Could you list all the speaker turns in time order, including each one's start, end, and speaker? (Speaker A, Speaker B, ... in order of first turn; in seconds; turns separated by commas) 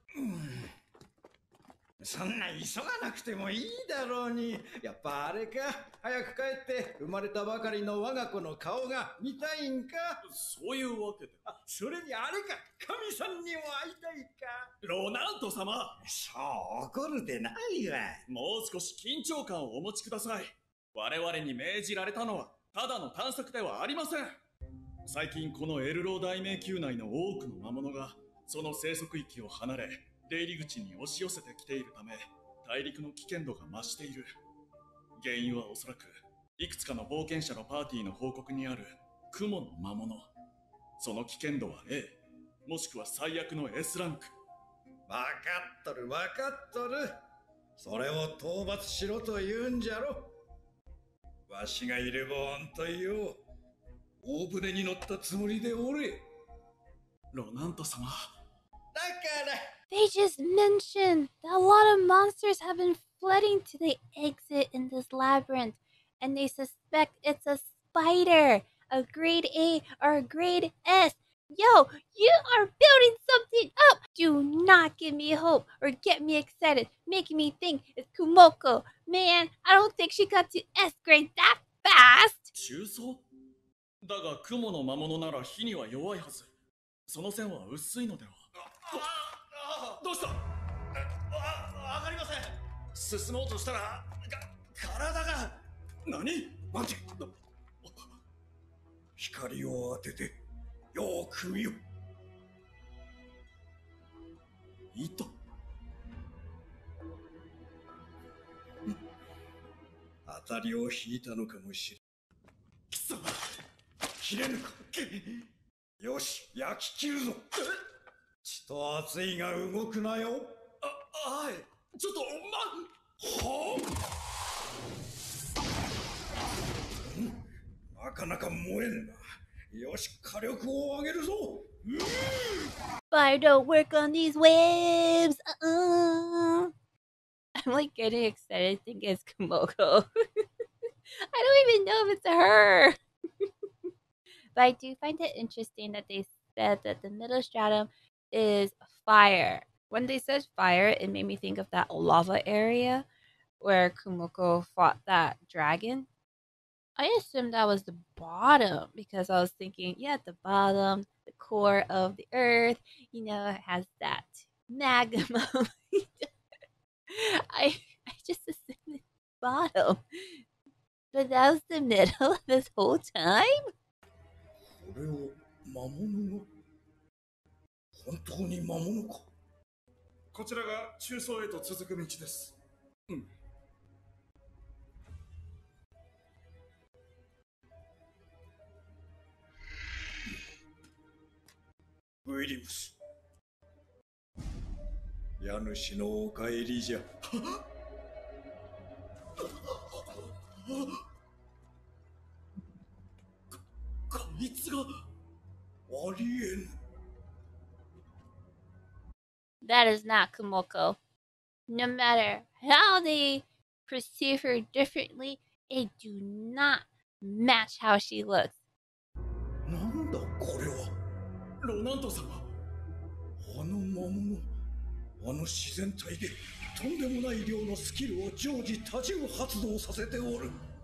Speaker A: 0.1-0.7, Speaker A: 2.0-10.2, Speaker B: 10.3-11.4, Speaker A: 11.5-14.7, Speaker B: 14.8-16.0, Speaker A: 16.0-18.2, Speaker B: 18.3-24.4, Speaker B: 25.1-34.3, Speaker B: 35.2-40.3, Speaker B: 41.0-44.3, Speaker A: 45.1-47.1, Speaker A: 47.8-50.3, Speaker A: 51.5-53.4, Speaker A: 54.2-56.2, Speaker B: 57.3-58.3, Speaker A: 58.9-59.7, Speaker C: 59.9-82.5, Speaker B: 82.5-83.2, Speaker B: 84.0-86.5, Speaker B: 87.1-89.3, Speaker B: 89.9-90.5, Speaker B: 91.3-96.7, Speaker A: 96.7-97.1, Speaker A: 99.2-100.4, Speaker A: 100.9-101.8, Speaker B: 104.9-105.3, Speaker A: 110.3-112.0, Speaker B: 112.9-113.4, Speaker A: 114.2-115.4, Speaker A: 116.0-117.5, Speaker A: 118.4-120.6, Speaker B: 120.8-122.9, Speaker A: 123.2-123.9, Speaker A: 127.0-127.4, Speaker A: 127.9-132.3, Speaker C: 133.1-136.7, Speaker C: 137.6-140.1, Speaker C: 141.3-143.0, Speaker C: 144.6-153.1, Speaker C: 153.6-156.1, Speaker C: 157.0-166.3, Speaker C: 167.1-170.3, Speaker C: 171.1-173.7, Speaker A: 174.7-176.5, Speaker A: 177.9-179.3, Speaker B: 180.3-182.5, Speaker A: 192.2-193.0, Speaker A: 195.4-197.1, Speaker B: 204.1-204.8, Speaker A: 205.9-206.7, Speaker C: 209.6-211.0, Speaker C: 211.7-218.6, Speaker A: 219.7-220.9, Speaker B: 221.6-222.4, Speaker A: 223.4-224.5, Speaker A: 225.2-230.6